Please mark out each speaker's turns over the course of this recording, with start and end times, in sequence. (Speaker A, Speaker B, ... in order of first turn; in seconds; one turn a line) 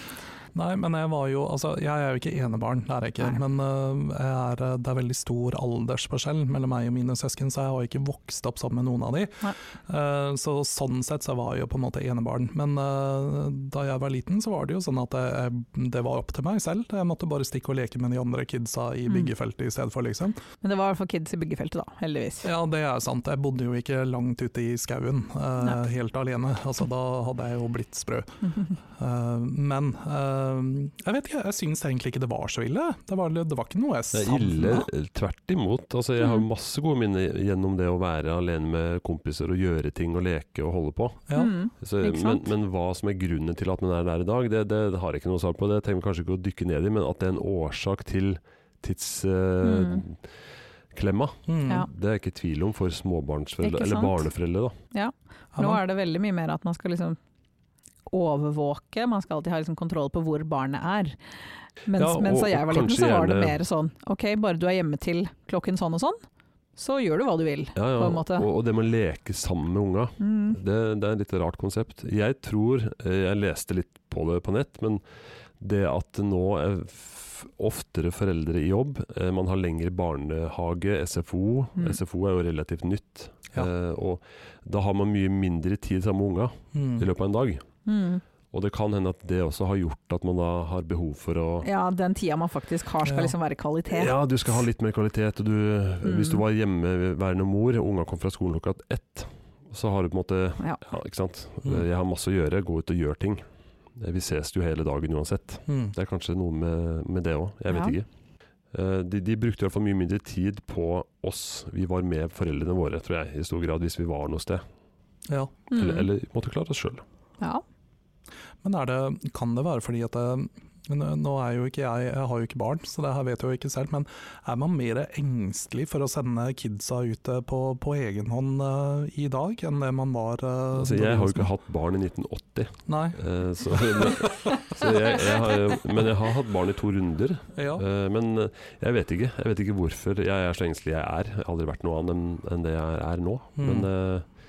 Speaker A: 0.5-20.4
Speaker B: 20.6-22.5
Speaker A: 22.4-34.9
Speaker C: 34.1-41.2
Speaker B: 41.3-42.5
Speaker C: 41.8-50.2
Speaker B: 49.6-50.0
Speaker C: 50.9-54.7
Speaker A: 51.5-51.8
Speaker B: 53.6-54.3
Speaker B: 54.9-57.2
Speaker A: 55.5-55.8
Speaker B: 58.1-61.2
Speaker B: 61.9-66.2
Speaker C: 61.9-63.6
Speaker B: 66.8-68.5
Speaker C: 67.8-75.0
Speaker B: 70.2-70.6
Speaker C: 75.6-87.6
Speaker A: 86.7-87.1
Speaker B: 87.8-88.2
Speaker C: 88.5-91.7
Speaker B: 91.6-94.1
Speaker A: 93.0-93.3
Speaker C: 93.9-103.4
Speaker B: 96.0-96.4
Speaker C: 104.0-108.0
Speaker A: 105.7-105.9
Speaker C: 108.7-114.6
Speaker A: 115.3-115.5
Speaker B: 115.7-116.1
Speaker C: 115.7-117.0
Speaker A: 118.6-131.5
Speaker C: 130.7-144.2
Speaker A: 132.9-133.2
Speaker A: 137.5-137.8
Speaker A: 143.6-143.9